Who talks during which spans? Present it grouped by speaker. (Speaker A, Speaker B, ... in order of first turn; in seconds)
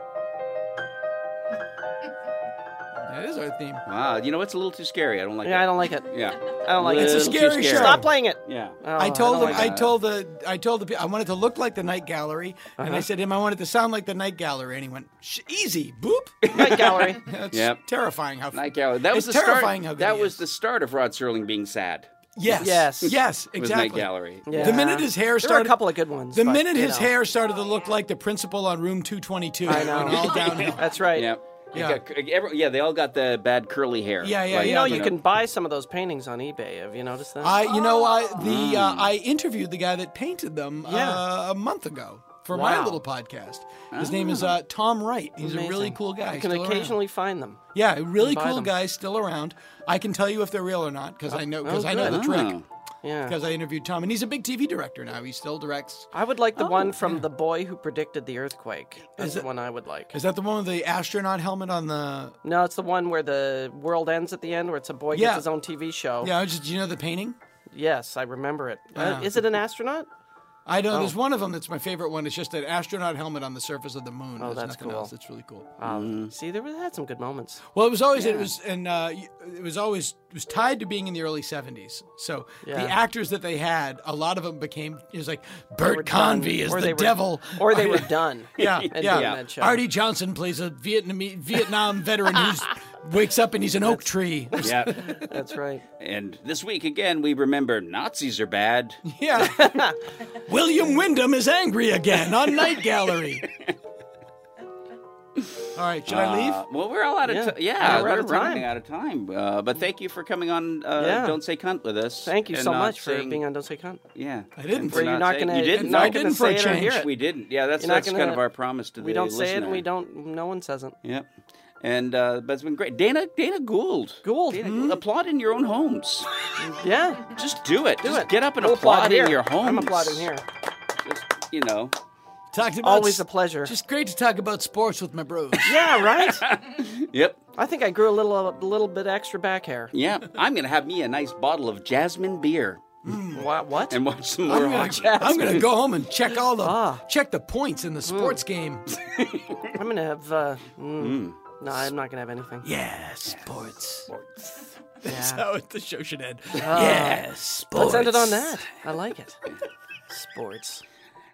Speaker A: 3.0-3.8, 6.9-8.1, 9.0-16.5, 17.2-20.3, 22.4-30.9, 31.7-32.0, 34.2-35.1, 37.4-47.0, 47.7-52.6, 53.2-56.1, 56.6-57.2, 59.1-59.5, 60.1-62.4, 65.1-65.5, 66.2-67.4, 68.9-69.5, 70.7-75.7, 77.7-95.3, 99.0-103.5, 105.7-106.6, 114.5-115.2, 115.7-117.0, 124.6-125.0, 132.5-135.9, 143.0-143.5, 144.4-148.9, 152.6-154.1, 155.0-158.7
Speaker B: 3.9-9.9, 16.4-17.8, 18.5-24.9, 30.0-35.2, 38.3-39.1, 43.9-44.5, 52.0-52.6, 75.8-76.3, 88.6-89.4, 94.6-95.0, 96.0-99.0, 103.5-103.7, 105.4-113.4, 114.1-116.2, 116.8-119.8, 121.8-126.3, 127.3-130.3, 131.0-131.9, 135.8-137.4, 139.9-142.9, 143.9-145.6, 148.9-149.7, 151.0-151.6, 154.1-154.7
Speaker C: 5.4-9.7, 12.8-13.0, 16.5-17.2, 22.6-23.2, 24.4-27.1, 29.6-31.3, 34.5-37.6, 40.8-41.2, 42.5-43.0, 45.4-47.6, 48.2-48.7, 51.3-52.3, 53.0-53.4, 56.1-60.2, 62.4-66.3, 67.7-70.1, 74.4-75.1, 75.8-77.6, 78.1-78.5, 82.6-83.0, 85.8-89.8, 95.1-95.8, 99.4-100.0, 107.2-108.7, 111.0-111.4, 112.2-114.0, 114.9-117.1, 117.8-118.4, 119.0-120.9, 124.2-124.6, 126.6-127.3, 128.0-130.4, 132.8-133.7, 135.6-136.4, 137.6-139.9, 143.3-144.0, 144.6-145.7, 146.6-147.0, 148.1-148.4, 149.7-152.7, 155.1-155.4, 156.6-159.4, 160.1-160.8